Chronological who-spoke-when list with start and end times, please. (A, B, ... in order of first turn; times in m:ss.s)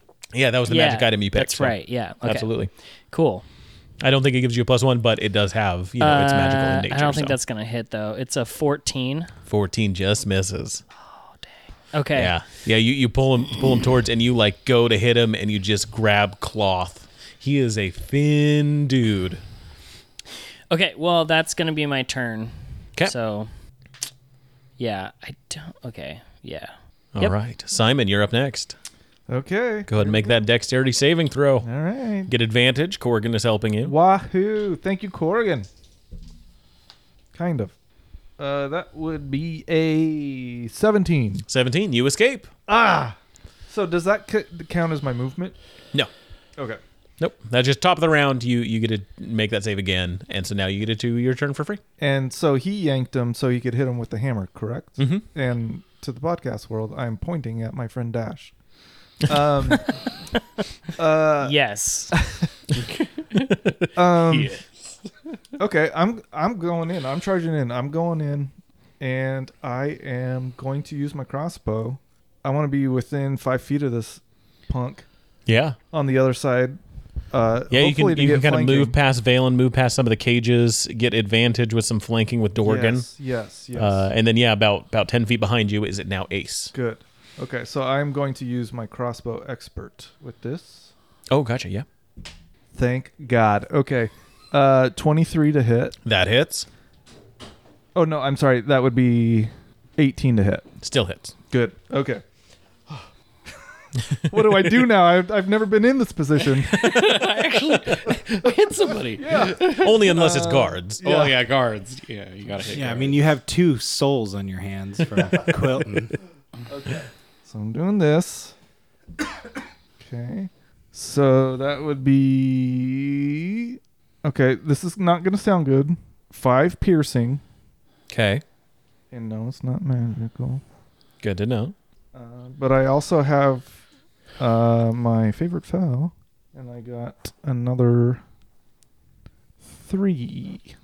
0:00.3-0:02.7 A
0:00.7-0:02.5 B
0:03.1-0:03.4 B
0:04.0-0:07.4 A
0:06.0-0:09.3 B
0:09.5-0:10.8 A
0:11.9-0:12.3 B
0:12.2-0:19.4 A
0:20.7-0:23.5 B
0:24.8-0:27.3 B
0:27.2-0:28.8 A
0:29.3-0:30.4 C
0:29.9-0:31.7 A
0:31.6-0:32.3 C
0:32.3-0:34.0 A
0:33.8-0:35.7 C
0:37.4-0:37.7 C
0:38.4-0:41.4 C
0:41.5-0:42.5 A
0:42.7-0:43.2 C
0:43.7-0:45.6 C
0:47.2-0:51.8 A
0:52.0-0:58.5 C
0:55.0-0:55.2 A
0:59.2-1:00.0 C
1:01.0-1:01.6 C
1:01.4-1:02.1 B
1:02.1-1:02.5 C
1:02.8-1:03.2 D
1:03.4-1:03.9 A
1:04.0-1:04.6 C
1:04.2-1:05.1 D
1:05.6-1:15.1 C
1:15.5-1:15.8 A
1:15.9-1:16.8 C
1:17.3-1:18.9 C
1:17.7-1:23.1 A
1:22.6-1:24.1 C
1:23.7-1:26.7 A
1:26.7-1:30.9 C
1:31.3-1:31.8 A
1:32.8-1:36.0 C
1:36.0-1:36.7 A
1:38.0-1:40.7 C
1:40.8-1:41.4 A
1:41.5-1:42.2 C
1:44.3-1:47.2 C
1:46.7-1:50.0 D
1:49.1-1:51.4 C
1:49.7-1:51.0 A
1:51.0-1:53.2 D
1:52.6-1:56.2 E
1:56.7-1:58.5 C
2:00.0-2:07.4 C
2:08.1-2:08.4 A
2:09.1-2:10.6 C
2:11.2-2:11.8 A
2:12.1-2:13.8 C
2:14.4-2:18.2 C
2:19.8-2:20.7 C